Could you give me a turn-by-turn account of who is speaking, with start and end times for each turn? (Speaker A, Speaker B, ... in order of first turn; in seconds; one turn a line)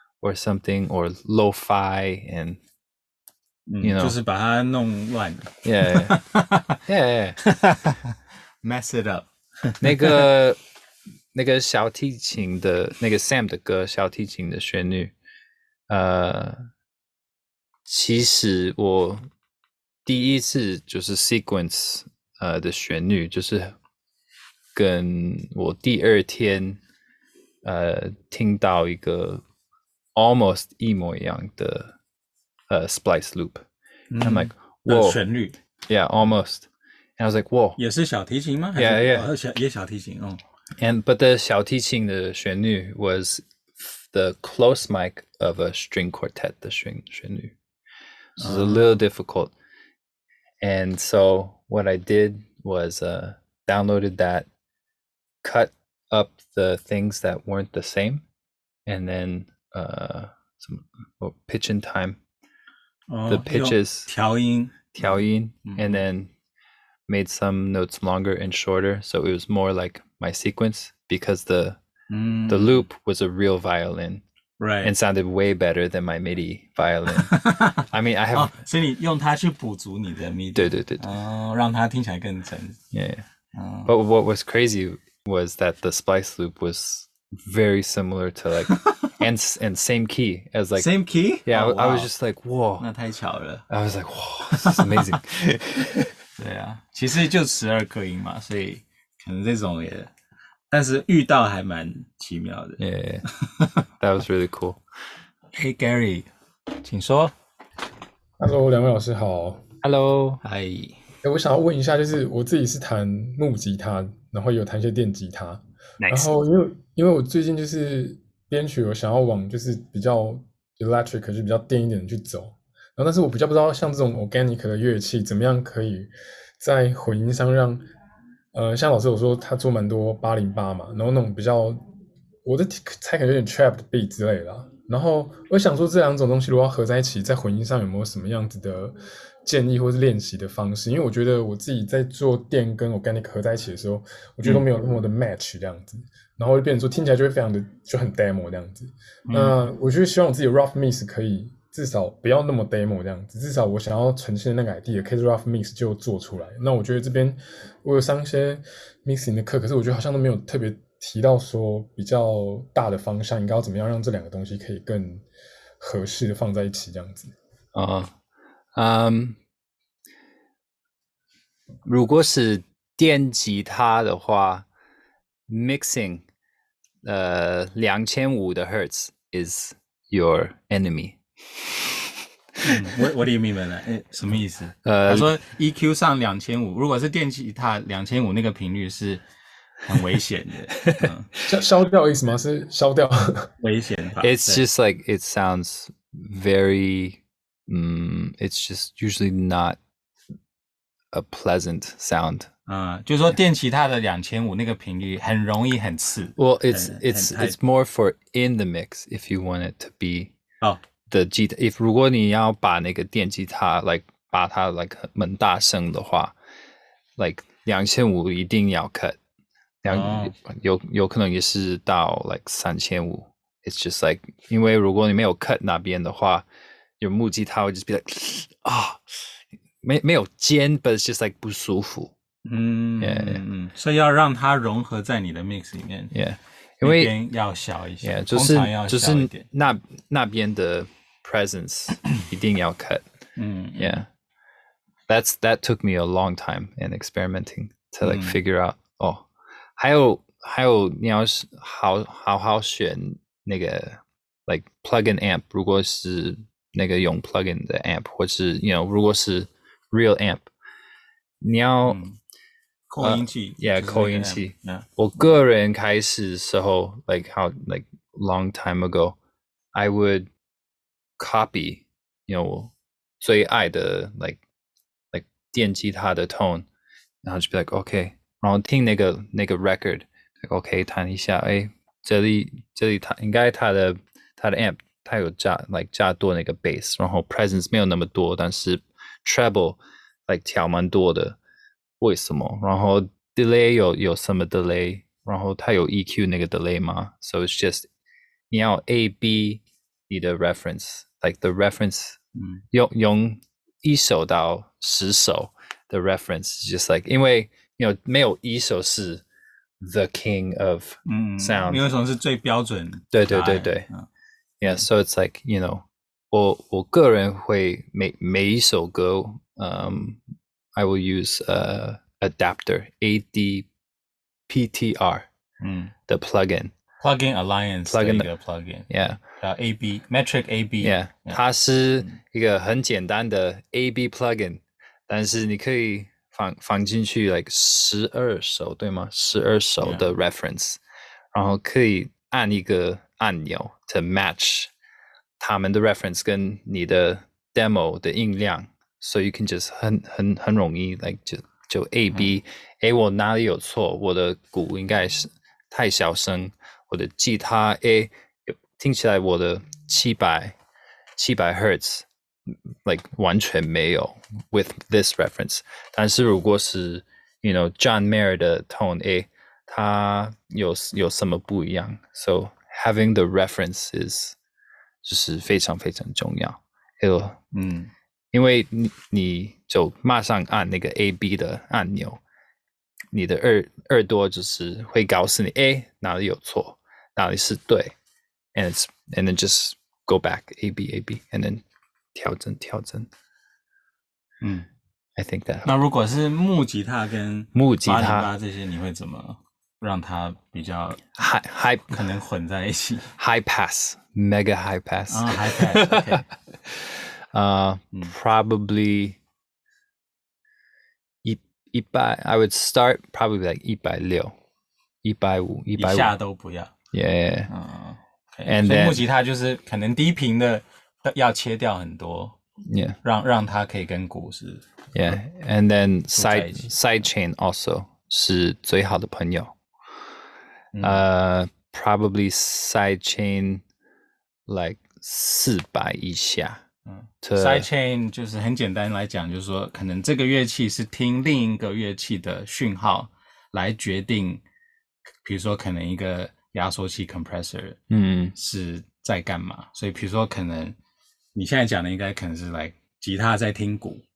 Speaker A: 0.2-2.6
Speaker B: 3.7-6.8
Speaker A: 3.8-4.2
Speaker A: 5.6-6.2
Speaker A: 6.9-7.4
Speaker B: 7.4-10.3
Speaker A: 9.8-10.6
Speaker A: 11.3-15.1
Speaker A: 15.9-16.7
Speaker A: 17.9-19.3
Speaker A: 20.1-23.8
Speaker A: 24.8-26.8
Speaker A: 27.6-29.4
Speaker A: 30.1-31.9
Speaker A: 32.7-33.6
Speaker B: 34.1-35.6
Speaker A: 34.2-35.2
Speaker A: 35.9-37.8
Speaker B: 37.8-40.4
Speaker A: 38.8-39.3
Speaker A: 40.8-47.5
Speaker A: 48.4-49.5
Speaker B: 48.4-48.9
Speaker A: 50.6-54.5
Speaker A: 55.4-58.2
Speaker A: 58.9-62.2
Speaker B: 63.1-64.9
Speaker A: 63.3-64.1
Speaker A: 64.9-66.3
Speaker B: 65.7-66.0
Speaker A: 67.1-71.8
Speaker B: 72.1-72.9
Speaker A: 72.5-74.2
Speaker B: 74.6-74.9
Speaker A: 74.8-78.6
Speaker B: 77.2-82.8
Speaker A: 80.5-81.0
Speaker A: 82.9-83.2
Speaker B: 83.5-83.9
Speaker A: 83.9-90.9
Speaker B: 88.7-89.1
Speaker B: 90.8-92.1
Speaker A: 91.5-92.9
Speaker B: 92.8-93.7
Speaker A: 93.7-96.1
Speaker B: 94.5-95.1
Speaker B: 96.4-100.1
Speaker B: 100.7-102.8
Speaker A: 102.8-103.2
Speaker A: 104.0-104.8
Speaker B: 105.5-107.3
Speaker C: 108.4-109.6
Speaker A: 109.8-110.4
Speaker B: 110.4-111.0
Speaker C: 111.2-127.8
Speaker A: 116.0-116.3
Speaker C: 128.5-131.8
Speaker C: 132.4-165.2
Speaker B: 149.3-149.6
Speaker C: 165.8-167.3
Speaker A: 167.7-168.1
Speaker A: 168.8-169.4
Speaker A: 171.8-174.7
Speaker A: 175.5-176.2
Speaker A: 177.0-181.2
Speaker B: 182.6-189.2
Speaker A: 184.8-185.3
Speaker B: 189.8-191.3
Speaker A: 190.8-191.1
Speaker C: 191.4-193.5
Speaker B: 193.6-194.6
Speaker A: 194.2-199.8
Speaker A: 201.1-202.5
Speaker B: 202.7-207.6
Speaker A: 206.4-210.3
Speaker A: 211.1-216.3
Speaker A: 217.2-219.2
Speaker A: 219.8-226.5
Speaker B: 219.9-220.3
Speaker A: 227.0-232.2
Speaker B: 232.4-236.1
Speaker A: 233.0-233.4
Speaker A: 236.1-237.2
Speaker B: 236.8-239.5
Speaker A: 238.0-243.0
Speaker B: 243.4-244.1
Speaker A: 243.8-244.1
Speaker A: 245.1-260.5
Speaker B: 248.0-248.4
Speaker A: 261.4-262.0
Speaker B: 261.9-262.2
Speaker B: 262.9-264.9
Speaker A: 263.0-269.2
Speaker A: 269.8-270.3
Speaker A: 271.2-274.4
Speaker A: 275.1-276.7
Speaker A: 277.2-291.4
Speaker A: 292.0-297.9
Speaker A: 298.5-302.2
Speaker B: 302.4-302.6
Speaker A: 302.7-309.2
Speaker A: 309.8-311.9
Speaker B: 311.1-314.1
Speaker A: 313.1-313.9
Speaker A: 314.6-320.2
Speaker A: 320.8-323.7
Speaker A: 324.5-325.3
Speaker B: 325.6-325.9
Speaker A: 326.1-326.7
Speaker B: 327.0-331.4
Speaker A: 327.9-328.3
Speaker A: 328.9-329.2
Speaker A: 330.8-340.8
Speaker B: 339.8-340.1
Speaker A: 341.3-344.7
Speaker A: 345.4-360.6
Speaker A: 361.2-374.4
Speaker A: 375.0-377.4
Speaker B: 377.5-377.9
Speaker A: 378.3-382.2
Speaker A: 383.1-387.9
Speaker A: 388.6-391.6
Speaker A: 392.1-393.1
Speaker B: 394.4-394.7
Speaker A: 395.2-395.7
Speaker B: 395.6-401.0
Speaker A: 397.5-398.3
Speaker A: 401.1-402.0
Speaker B: 401.9-403.1
Speaker A: 403.2-409.2
Speaker B: 405.1-406.3
Speaker A: 411.2-414.4
Speaker A: 415.0-416.1
Speaker B: 415.8-416.7
Speaker A: 416.9-417.5
Speaker B: 417.5-422.4
Speaker A: 418.5-419.0
Speaker A: 422.6-423.0
Speaker B: 423.0-425.2
Speaker A: 424.9-429.6
Speaker B: 426.1-426.7
Speaker B: 430.7-431.0
Speaker A: 430.8-433.6
Speaker A: 434.5-436.6
Speaker B: 436.9-444.4
Speaker A: 437.2-437.7
Speaker B: 445.2-447.8
Speaker A: 447.9-448.4
Speaker B: 448.4-450.8
Speaker B: 451.4-454.0